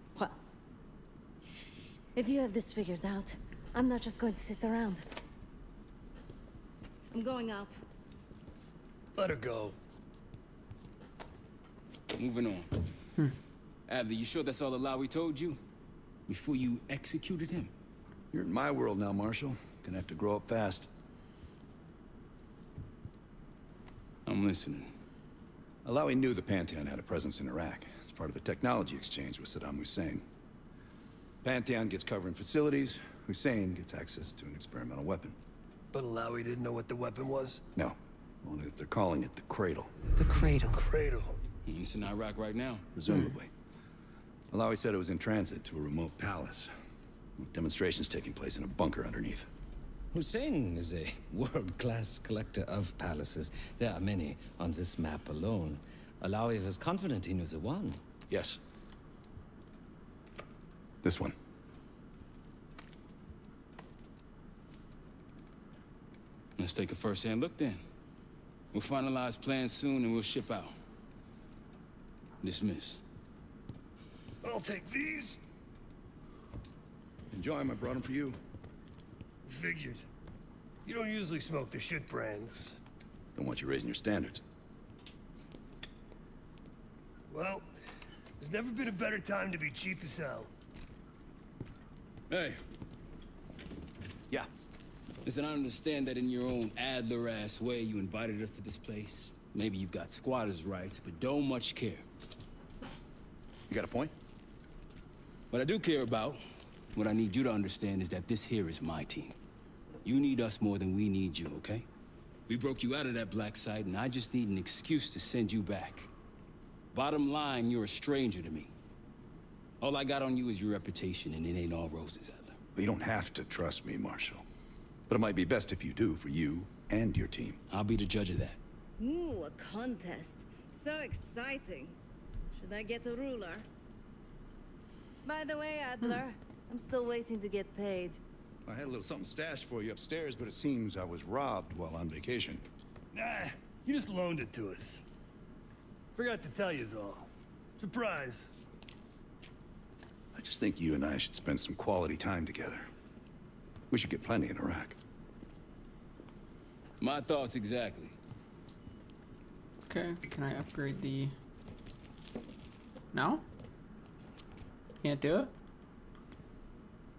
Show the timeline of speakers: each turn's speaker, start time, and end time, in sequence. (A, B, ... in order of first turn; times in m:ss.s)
0:02.2-0:05.0 A
0:07.1-0:07.8 A
0:09.2-0:09.8 B
0:12.1-0:12.7 C
0:13.9-0:15.6 C
0:16.3-0:17.7 C
0:18.3-0:20.9 D
0:24.3-0:24.9 C
0:25.8-0:30.2 D
0:31.4-0:35.4 D
0:35.9-0:37.6 B
0:37.8-0:39.9 D
0:40.2-0:41.4 B
0:41.7-0:42.9 C
0:43.0-0:43.5 D
0:43.1-0:43.3 E
0:44.5-0:46.7 D
0:47.4-0:49.5 D
0:50.1-0:58.0 F
0:58.3-0:58.6 D
1:01.0-1:01.4 D
1:06.6-1:07.8 C
1:08.7-1:10.7 C
1:12.4-1:13.0 C
1:14.4-1:15.4 B
1:17.3-1:18.4 D
1:19.5-1:20.0 B
1:20.8-1:22.8 B
1:23.4-1:24.4 D
1:27.3-1:27.7 B
1:28.4-1:30.5 B
1:32.3-1:32.6 C
1:35.2-1:42.0 C
1:43.7-1:44.1 D
1:45.5-1:46.4 C
1:47.0-1:49.4 C
1:50.0-1:51.9 C
1:52.5-1:56.1 C
1:56.9-1:58.7 C
1:59.8-2:02.6 C
2:02.8-2:04.4 D
2:05.1-2:07.6 D
2:07.7-2:08.6 C
2:09.0-2:12.0 A
2:12.6-2:13.7 A
2:15.2-2:18.2 A
2:18.7-2:22.6 D
2:23.1-2:25.0 B
2:26.2-2:27.3 B
2:27.8-2:28.5 B
2:30.3-2:32.9 D
2:33.9-2:35.0 D
2:37.0-2:38.2 C
2:39.9-2:41.3 E
2:43.1-2:43.4 E
2:45.0-2:45.5 E